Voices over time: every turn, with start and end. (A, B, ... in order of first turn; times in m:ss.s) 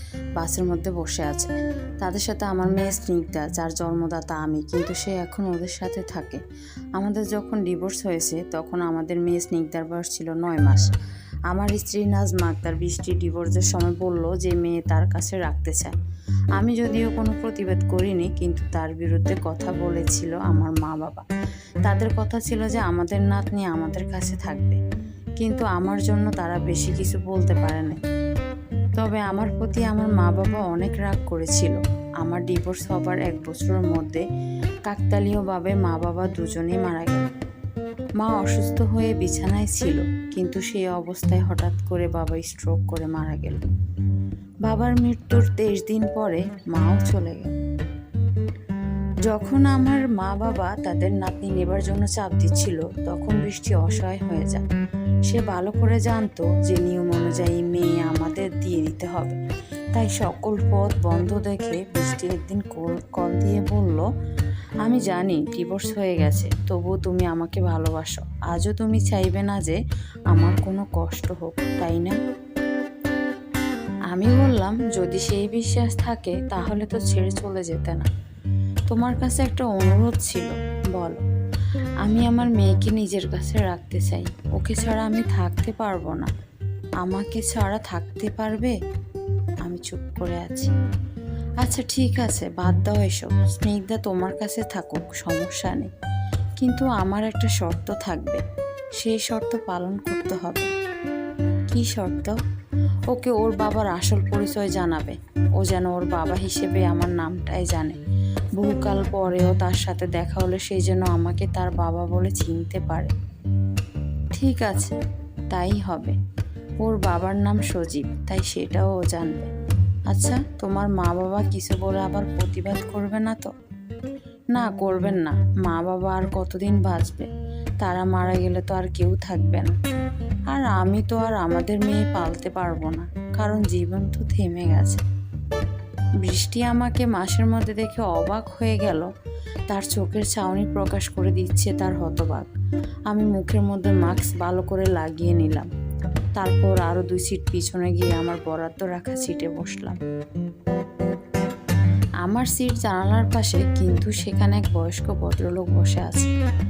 0:00.4-0:06.4 A
0:07.0-0:10.9 A
0:11.5-0:15.9 A
0:16.6-0:21.3 A
0:21.8-0:24.8 A
0:25.4-0:28.0 A
0:29.0-0:34.2 A
0:34.9-0:37.3 A
0:38.2-0:43.6 A
0:44.7-0:47.6 A
0:49.3-0:54.6 A
0:55.3-0:59.4 A
0:59.9-1:04.1 A
1:04.8-1:09.8 A
1:10.3-1:12.2 A
1:14.1-1:18.1 A
1:18.9-1:21.2 A
1:22.0-1:26.3 A
1:27.0-1:28.8 A
1:29.6-1:30.7 A
1:31.6-1:35.9 A
1:36.6-1:38.4 A
1:39.0-1:40.7 A
1:41.7-1:42.4 A
1:43.1-1:48.0 A
1:48.6-1:53.1 A
1:54.4-1:54.9 A
1:55.5-1:56.2 A
1:56.8-1:59.5 A
2:00.1-2:03.5 A
2:04.5-2:07.3 A
2:07.8-2:09.8 A
2:10.5-2:15.0 A
2:16.2-2:19.1 A
2:19.7-2:22.5 A
2:23.1-2:25.7 A
2:26.4-2:30.0 A
2:32.2-2:36.3 A